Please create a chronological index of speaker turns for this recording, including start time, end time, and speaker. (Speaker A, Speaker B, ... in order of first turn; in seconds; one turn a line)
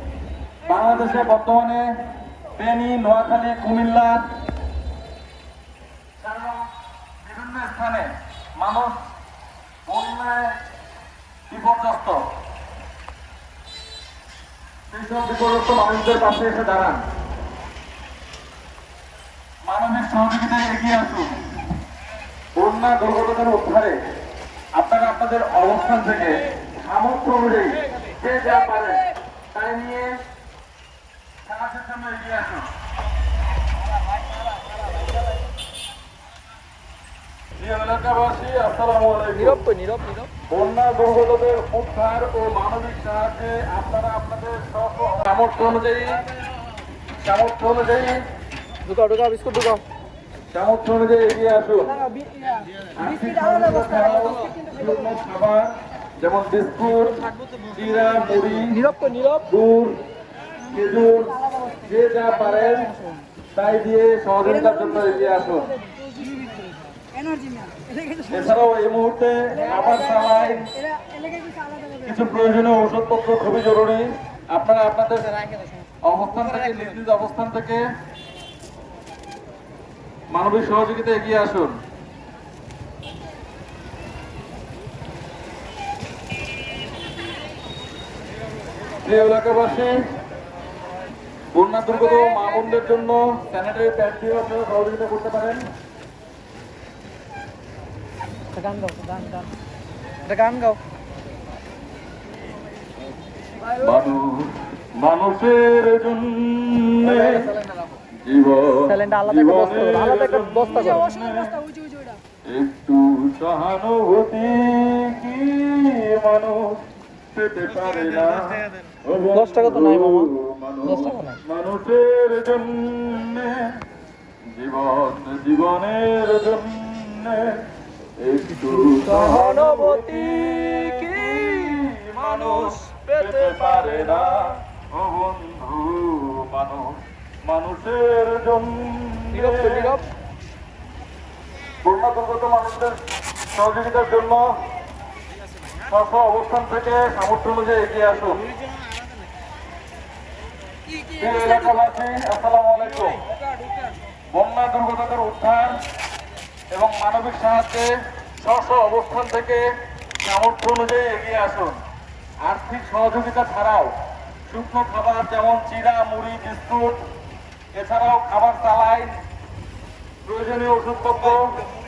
Speaker A: 0.6-1.8
Speaker A: 2.6-4.2
Speaker A: 6.2-6.7
Speaker A: 7.2-9.0
Speaker A: 9.9-10.5
Speaker A: 11.5-12.2
Speaker A: 14.9-17.0
Speaker A: 19.6-21.4
Speaker A: 22.6-23.9
Speaker A: 24.8-30.1
Speaker A: 31.4-32.7
Speaker A: 37.6-39.6
Speaker B: 39.4-40.3
Speaker A: 40.5-46.2
Speaker A: 47.2-48.2
Speaker B: 48.8-49.8
Speaker A: 50.5-52.0
Speaker A: 52.9-58.9
Speaker B: 58.7-59.4
Speaker A: 59.4-60.0
Speaker A: 60.7-62.9
Speaker A: 63.5-65.7
Speaker C: 67.2-68.2
Speaker A: 68.3-70.7
Speaker C: 71.3-71.8
Speaker A: 72.0-75.4
Speaker A: 76.0-77.8
Speaker A: 80.3-81.8
Speaker A: 89.0-89.9
Speaker A: 91.5-95.6
Speaker B: 98.5-99.5
Speaker B: 100.3-100.8
Speaker A: 103.7-107.5
Speaker B: 107.0-107.9
Speaker A: 108.2-111.6
Speaker B: 108.8-111.1
Speaker C: 111.2-112.1
Speaker A: 112.5-116.8
Speaker A: 117.3-123.8
Speaker B: 119.3-120.3
Speaker B: 120.8-121.4
Speaker A: 124.5-127.6
Speaker A: 128.2-139.9
Speaker B: 128.7-134.5
Speaker B: 139.3-140.1
Speaker A: 141.8-143.0
Speaker A: 143.5-144.5
Speaker A: 145.8-148.4
Speaker A: 151.1-153.2
Speaker A: 154.3-155.8
Speaker A: 156.7-157.9
Speaker A: 158.4-159.6
Speaker A: 160.2-161.8
Speaker A: 162.4-163.9
Speaker A: 164.5-167.0
Speaker A: 167.7-169.1
Speaker A: 170.2-171.5